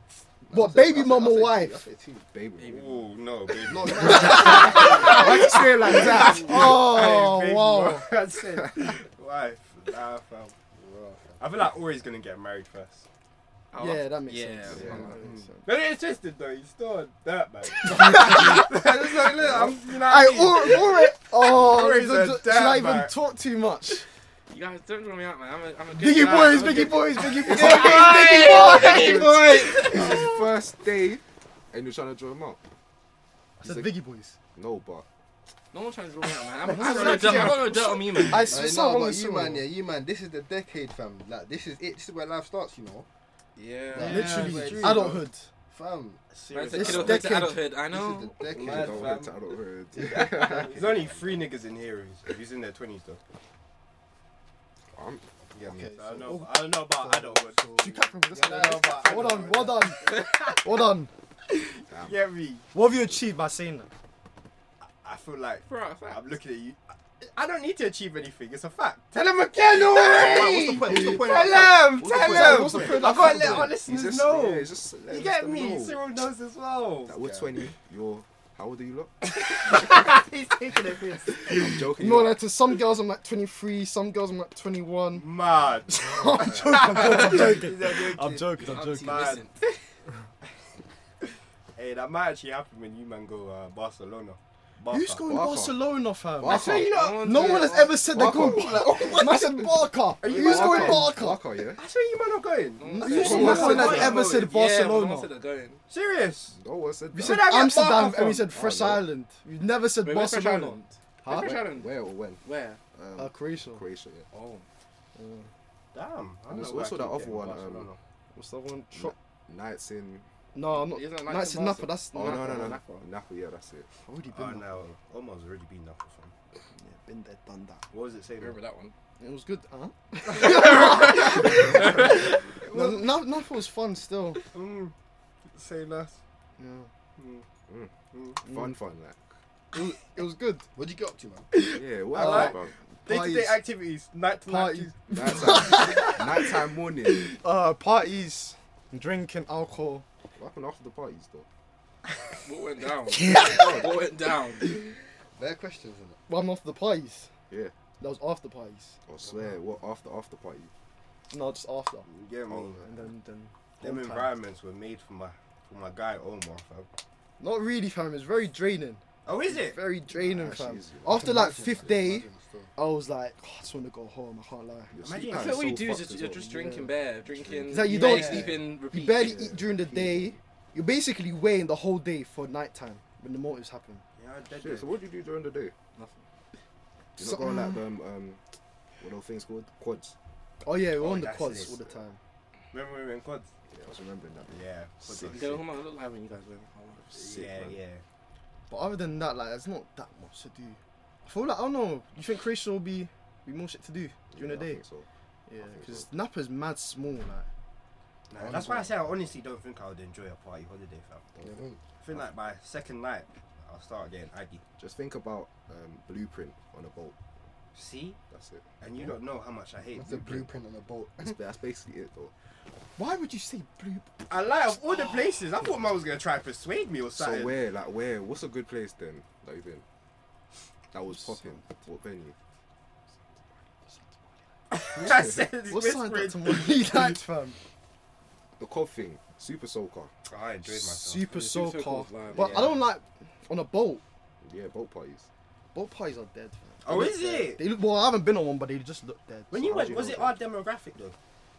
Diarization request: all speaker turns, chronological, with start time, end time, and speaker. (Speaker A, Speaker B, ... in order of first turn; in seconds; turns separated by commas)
Speaker A: 0.5-2.2, Speaker B: 0.5-1.8, Speaker C: 2.3-3.0, Speaker D: 2.6-2.9, Speaker E: 2.6-5.3, Speaker A: 3.6-5.3, Speaker B: 4.3-8.1, Speaker C: 4.8-6.6, Speaker E: 5.8-10.6, Speaker A: 10.8-11.4, Speaker E: 11.4-13.1, Speaker D: 13.7-15.0, Speaker B: 13.8-15.7, Speaker C: 14.7-15.1, Speaker A: 14.8-15.5, Speaker E: 15.7-23.1, Speaker B: 17.8-24.1, Speaker D: 24.5-30.2, Speaker B: 25.9-30.1, Speaker C: 27.4-32.6, Speaker E: 28.3-30.2, Speaker C: 33.6-34.0, Speaker B: 33.6-34.4, Speaker C: 34.5-35.1, Speaker D: 35.7-38.6, Speaker B: 36.6-39.7, Speaker E: 36.8-38.1, Speaker A: 38.5-43.1, Speaker D: 43.6-44.4, Speaker A: 43.9-46.2, Speaker E: 44.0-45.3, Speaker B: 44.0-45.5, Speaker E: 46.3-47.3, Speaker D: 46.5-48.4, Speaker B: 46.8-47.7, Speaker A: 47.9-49.3, Speaker E: 48.5-49.4, Speaker C: 48.5-51.0, Speaker A: 49.9-51.4, Speaker E: 50.0-53.2, Speaker C: 54.9-55.2, Speaker A: 55.5-59.8, Speaker E: 55.6-57.6, Speaker B: 57.8-61.1, Speaker E: 58.4-60.6, Speaker C: 61.9-62.2, Speaker E: 62.0-62.6, Speaker B: 62.7-63.9, Speaker E: 65.0-66.8, Speaker D: 65.7-66.2, Speaker E: 67.3-77.5, Speaker A: 69.9-73.5, Speaker B: 72.1-73.8, Speaker C: 72.2-76.0, Speaker C: 77.1-79.2, Speaker E: 79.3-81.8, Speaker C: 81.5-82.4, Speaker B: 82.0-85.3, Speaker E: 85.2-89.5, Speaker B: 85.9-89.3, Speaker D: 88.6-89.8, Speaker E: 91.8-95.2, Speaker B: 94.9-101.4, Speaker C: 95.3-96.9, Speaker E: 96.4-99.4, Speaker D: 96.5-98.1, Speaker C: 98.0-101.8, Speaker E: 100.2-101.2, Speaker E: 101.8-104.5, Speaker D: 102.8-105.8, Speaker B: 102.9-105.3, Speaker C: 103.2-104.3, Speaker E: 105.9-106.6, Speaker C: 106.5-107.5, Speaker E: 107.1-108.5, Speaker B: 107.2-111.6, Speaker C: 108.4-109.1, Speaker D: 110.0-112.8, Speaker C: 111.3-112.4, Speaker C: 112.9-114.3, Speaker B: 113.2-113.8, Speaker D: 114.3-114.7, Speaker B: 115.2-115.5, Speaker E: 115.9-118.0, Speaker C: 116.5-117.9, Speaker B: 118.3-119.1, Speaker C: 118.9-120.3, Speaker B: 120.5-122.8, Speaker D: 120.8-123.1, Speaker C: 122.1-123.9, Speaker B: 124.0-124.7, Speaker E: 124.3-126.3, Speaker B: 126.8-127.8, Speaker E: 127.9-128.6, Speaker D: 128.4-128.9, Speaker B: 129.2-134.5, Speaker D: 130.4-132.1, Speaker E: 131.5-133.1, Speaker E: 134.5-134.9, Speaker E: 135.5-136.2, Speaker B: 136.6-136.9, Speaker E: 137.2-137.4, Speaker C: 137.7-139.2, Speaker E: 138.1-138.4, Speaker B: 138.5-138.7, Speaker B: 139.7-140.7, Speaker A: 140.8-141.5, Speaker C: 141.6-142.7, Speaker B: 142.1-143.6, Speaker E: 142.1-145.3, Speaker B: 144.5-146.5, Speaker C: 145.1-147.4, Speaker B: 147.1-150.1, Speaker C: 150.3-151.5, Speaker D: 152.4-154.8, Speaker B: 153.1-153.9, Speaker B: 154.6-154.9, Speaker A: 155.3-156.2, Speaker B: 156.3-157.3, Speaker B: 158.0-159.0, Speaker C: 159.1-160.7, Speaker B: 161.3-162.1, Speaker E: 162.1-162.8, Speaker C: 162.5-163.0, Speaker B: 162.8-164.3, Speaker E: 163.8-166.9, Speaker B: 167.4-174.9, Speaker E: 169.3-169.8, Speaker C: 170.1-171.5, Speaker A: 171.1-172.7, Speaker C: 174.9-176.5, Speaker E: 175.0-175.8, Speaker D: 175.3-179.4, Speaker B: 176.4-176.9, Speaker C: 177.3-178.0, Speaker B: 177.7-184.0, Speaker E: 177.9-178.5, Speaker C: 179.2-180.4, Speaker E: 184.2-184.9, Speaker C: 184.5-185.8, Speaker D: 186.0-186.2, Speaker C: 187.2-188.5, Speaker B: 187.2-187.8, Speaker C: 189.0-190.2, Speaker B: 190.6-192.2, Speaker E: 191.0-191.8, Speaker E: 192.7-193.5, Speaker C: 193.7-195.7, Speaker E: 194.5-195.6, Speaker D: 195.2-197.1, Speaker C: 197.1-197.8, Speaker E: 197.1-198.0, Speaker B: 198.7-204.8, Speaker C: 204.3-205.1, Speaker B: 205.5-207.5, Speaker C: 205.6-206.1, Speaker E: 208.3-211.3, Speaker A: 208.4-209.0, Speaker A: 211.4-211.8, Speaker E: 212.0-214.6, Speaker C: 214.8-217.2, Speaker E: 217.8-218.2, Speaker C: 218.3-219.1, Speaker E: 218.8-220.5, Speaker A: 219.9-221.4, Speaker C: 221.2-222.3, Speaker B: 223.0-224.1, Speaker E: 224.3-227.6, Speaker C: 227.2-229.8, Speaker C: 230.9-232.4, Speaker B: 231.1-231.6, Speaker E: 234.7-237.2, Speaker C: 235.0-235.5, Speaker B: 235.7-237.6, Speaker C: 238.6-240.1, Speaker E: 240.3-241.3, Speaker B: 240.8-244.0, Speaker D: 241.3-242.7, Speaker E: 242.3-242.8, Speaker C: 244.4-245.3, Speaker B: 245.7-249.9, Speaker E: 246.8-247.6, Speaker E: 249.5-251.2, Speaker C: 249.5-250.4